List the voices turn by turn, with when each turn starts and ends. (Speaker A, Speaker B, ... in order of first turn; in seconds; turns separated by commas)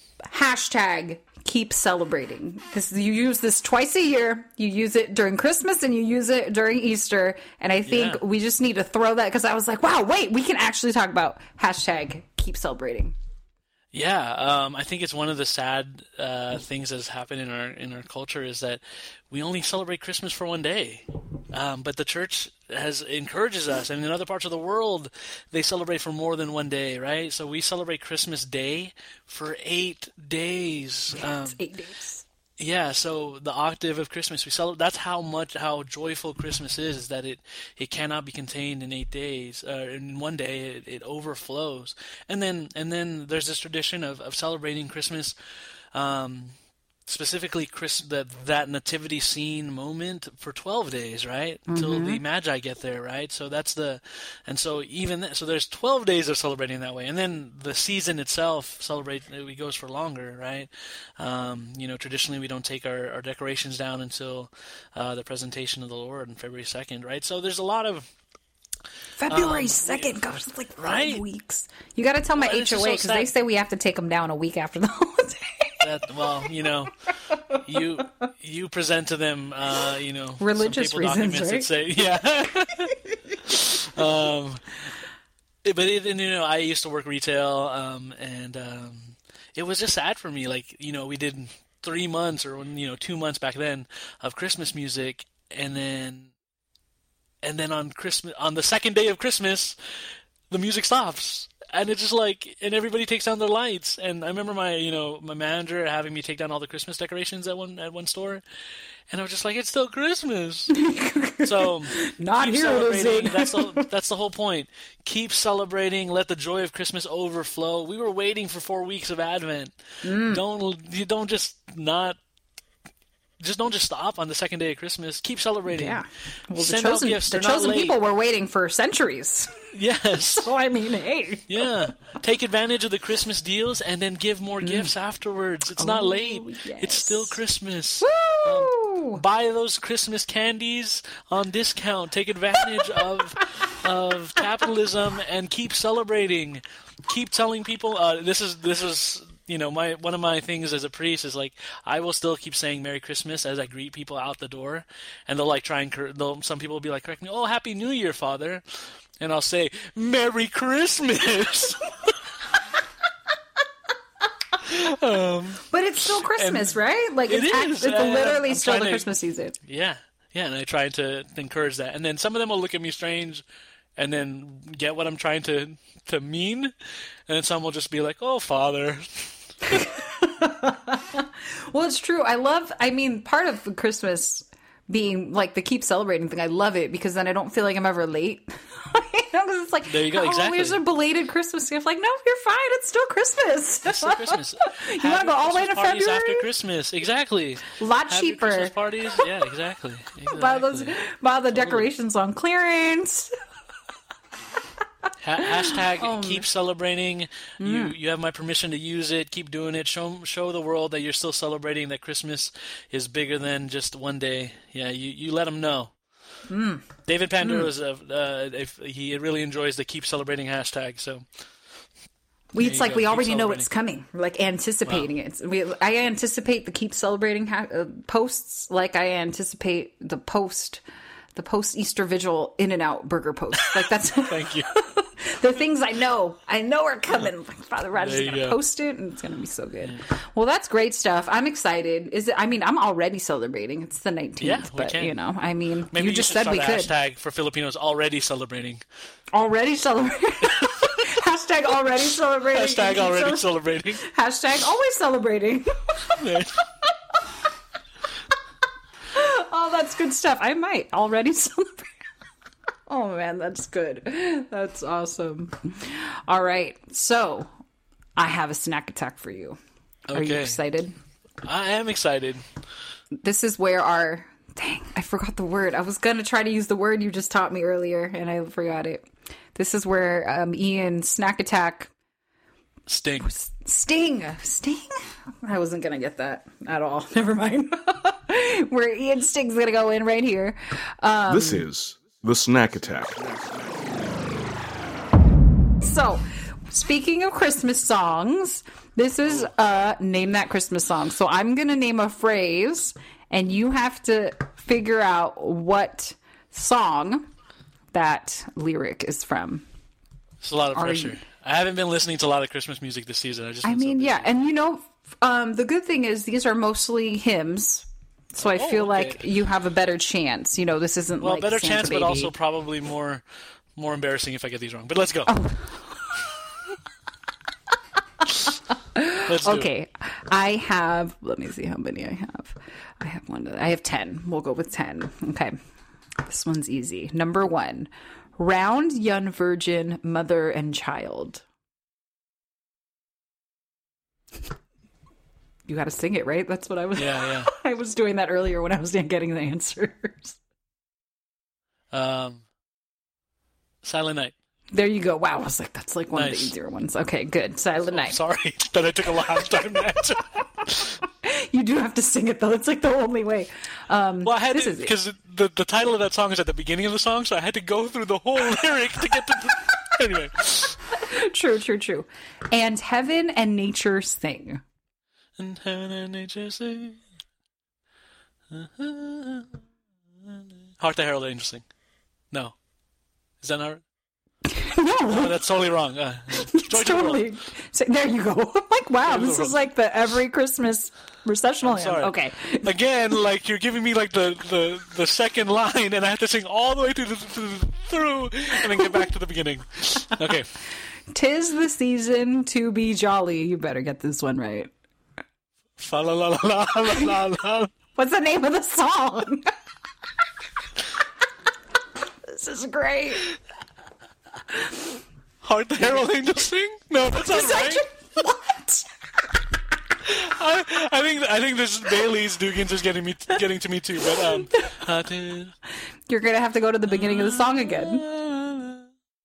Speaker A: 0.3-13.2, Speaker B: 7.8-8.2, Speaker B: 13.9-31.6, Speaker A: 31.1-32.2, Speaker B: 32.6-45.3, Speaker B: 45.9-46.5, Speaker B: 47.1-68.1, Speaker A: 51.7-52.2, Speaker A: 69.2-75.8, Speaker B: 69.3-70.2, Speaker B: 70.8-71.2, Speaker B: 72.4-73.3, Speaker B: 75.8-76.9, Speaker B: 77.6-84.9, Speaker A: 80.4-81.7, Speaker B: 85.6-96.3, Speaker B: 97.4-99.8, Speaker B: 100.5-108.4, Speaker B: 109.1-110.8, Speaker A: 110.8-113.8, Speaker B: 111.4-122.2, Speaker A: 120.0-120.4, Speaker B: 123.4-128.0, Speaker A: 125.7-129.7, Speaker B: 129.7-130.4, Speaker A: 130.4-131.7, Speaker B: 131.5-162.2, Speaker A: 134.6-134.9, Speaker A: 135.8-137.3, Speaker A: 138.0-139.2, Speaker B: 164.6-166.7, Speaker A: 165.7-169.5, Speaker B: 167.3-169.1, Speaker B: 169.6-173.4, Speaker B: 174.0-176.7, Speaker B: 177.3-179.9, Speaker A: 179.7-196.4, Speaker B: 189.9-190.8, Speaker B: 193.9-200.9, Speaker A: 197.8-199.3, Speaker A: 200.3-203.3, Speaker B: 201.5-201.9, Speaker B: 205.2-215.9, Speaker A: 205.9-206.4, Speaker A: 207.6-207.9, Speaker A: 216.5-216.9, Speaker B: 217.0-221.2, Speaker A: 217.4-217.7, Speaker A: 222.5-230.8, Speaker B: 222.6-223.7, Speaker A: 231.3-246.9, Speaker B: 233.6-234.7, Speaker B: 238.0-238.6, Speaker B: 244.4-245.1, Speaker B: 245.9-248.8, Speaker A: 249.3-253.4, Speaker B: 250.5-250.8, Speaker B: 252.5-254.0, Speaker A: 254.0-256.2, Speaker B: 256.2-256.6, Speaker A: 259.1-261.9, Speaker A: 262.9-267.5, Speaker A: 268.1-269.6, Speaker B: 270.1-270.6, Speaker A: 270.1-270.9, Speaker B: 271.4-272.4, Speaker A: 273.2-281.9, Speaker B: 282.9-283.3, Speaker A: 283.2-291.6, Speaker C: 291.3-293.3, Speaker A: 295.8-307.3, Speaker A: 307.9-309.6, Speaker B: 310.4-314.3, Speaker A: 310.7-311.2, Speaker A: 313.6-322.3, Speaker B: 318.4-319.2, Speaker B: 321.2-323.2, Speaker B: 323.8-325.3, Speaker A: 325.3-326.3, Speaker A: 328.4-335.5, Speaker B: 329.2-329.7, Speaker A: 336.2-341.4, Speaker A: 345.7-350.4, Speaker B: 347.0-347.5, Speaker B: 351.9-352.4, Speaker B: 353.8-354.3, Speaker A: 354.7-358.2, Speaker B: 356.1-356.5, Speaker B: 357.9-360.9, Speaker A: 361.2-364.9, Speaker B: 364.2-370.9, Speaker A: 371.0-374.6, Speaker B: 375.4-377.0, Speaker B: 378.5-379.5, Speaker B: 380.3-381.6, Speaker B: 383.4-383.8, Speaker A: 384.4-385.3, Speaker B: 385.1-387.3, Speaker A: 386.3-392.7, Speaker B: 389.0-389.5, Speaker B: 391.6-400.5, Speaker A: 398.6-398.9, Speaker A: 401.1-404.7, Speaker B: 405.8-407.7, Speaker A: 407.9-409.5, Speaker A: 412.3-413.2, Speaker B: 415.4-417.8, Speaker A: 417.2-418.9, Speaker B: 420.0-425.5, Speaker A: 424.2-424.6, Speaker A: 426.1-428.0, Speaker B: 426.9-428.9